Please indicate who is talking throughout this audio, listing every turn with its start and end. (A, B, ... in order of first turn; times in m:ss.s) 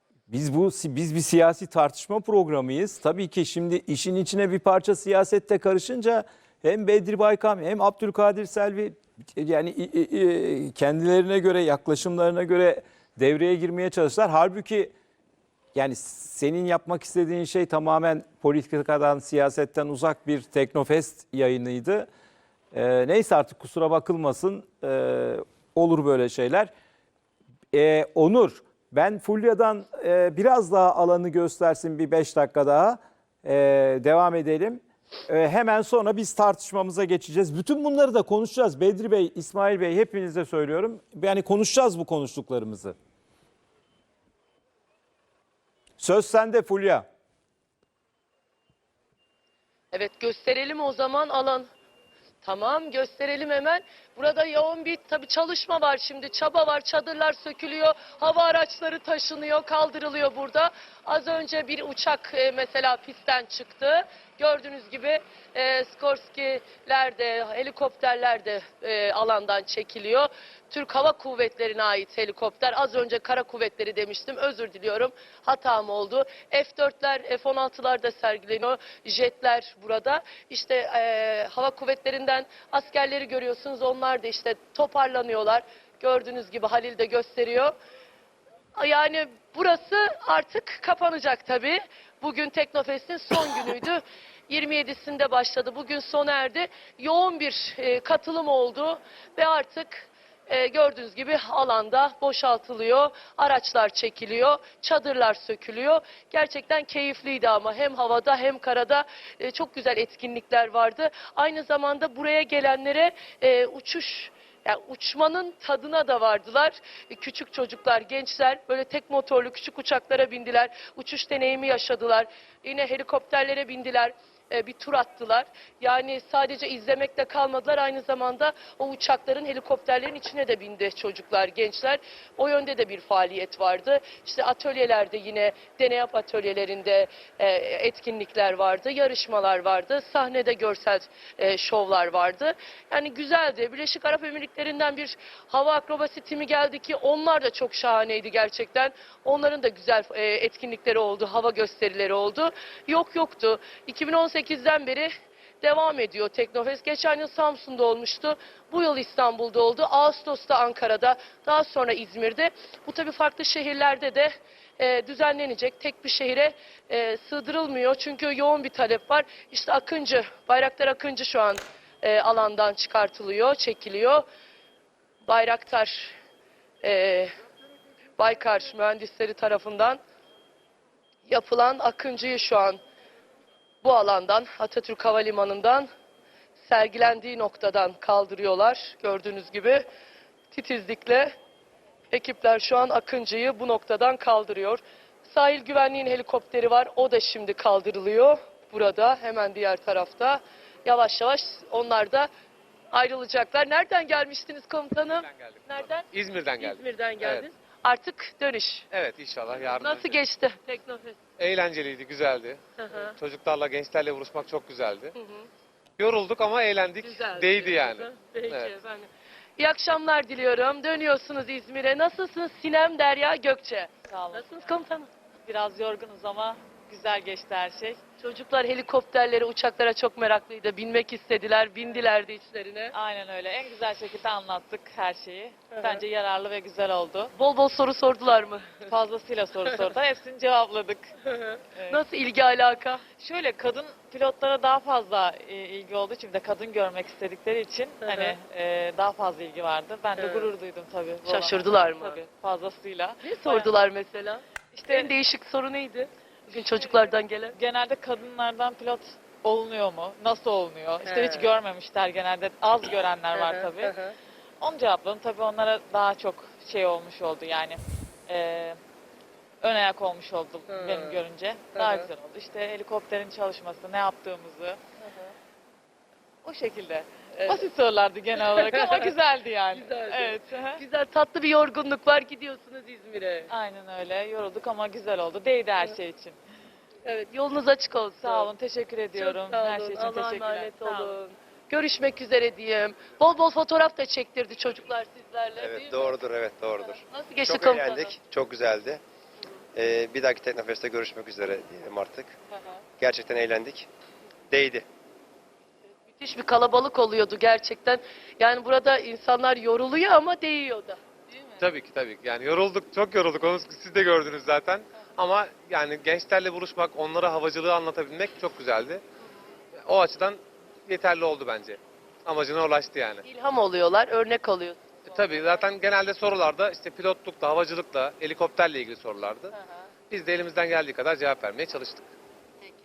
0:00.3-0:14.9 A
0:15.7-0:22.1 A
0:22.7-0:26.7 A
0:27.7-0:43.0 A
0:46.0-0:47.0 A
0:49.9-0:51.7 B
0:52.4-1:27.7 B
1:28.8-2:35.1 B
2:35.6-2:54.2 B
2:55.2-2:56.1 B
2:56.8-2:57.3 B
2:58.2-3:00.0 B
3:01.2-3:02.8 B
3:03.8-3:05.9 B
3:06.6-3:09.8 B
3:10.5-3:11.3 B
3:12.1-3:22.3 B
3:22.9-3:28.9 B
3:25.2-3:27.4 C
3:28.9-3:30.2 C
3:29.6-3:31.2 B
3:31.4-3:35.1 C
3:32.8-3:33.2 B
3:35.1-3:35.4 B
3:36.0-3:38.7 C
3:37.0-3:45.1 B
3:44.1-3:44.8 D
3:45.5-3:48.0 D
3:48.2-3:53.0 B
3:52.9-3:57.3 D
3:55.7-3:56.0 B
3:57.3-3:58.9 B
3:58.9-4:01.1 D
4:01.2-4:03.0 B
4:01.7-4:02.0 D
4:03.1-4:13.7 D
4:08.0-4:08.4 B
4:10.2-4:10.5 B
4:11.2-4:12.2 B
4:13.2-4:17.6 B
4:14.7-4:15.2 D
4:16.7-4:23.9 D
4:21.0-4:21.5 B
4:23.3-4:24.1 B
4:24.6-4:28.8 D
4:29.6-4:34.8 D
4:30.7-4:32.1 B
4:35.0-4:35.3 B
4:36.4-4:40.8 D
4:37.3-4:37.7 B
4:38.5-4:39.1 B
4:39.7-4:43.5 B
4:43.5-4:46.4 D
4:47.0-4:48.5 B
4:48.2-4:51.1 D
4:49.1-4:56.2 B
4:55.6-4:59.0 E
4:56.8-4:58.2 B
4:59.7-5:02.3 E
5:03.0-5:03.9 E
5:04.5-5:04.8 E
5:06.1-5:11.0 B
5:11.6-5:19.0 C
5:19.8-5:23.2 C
5:23.2-5:25.4 B
5:25.0-5:29.5 C
5:30.1-5:32.1 C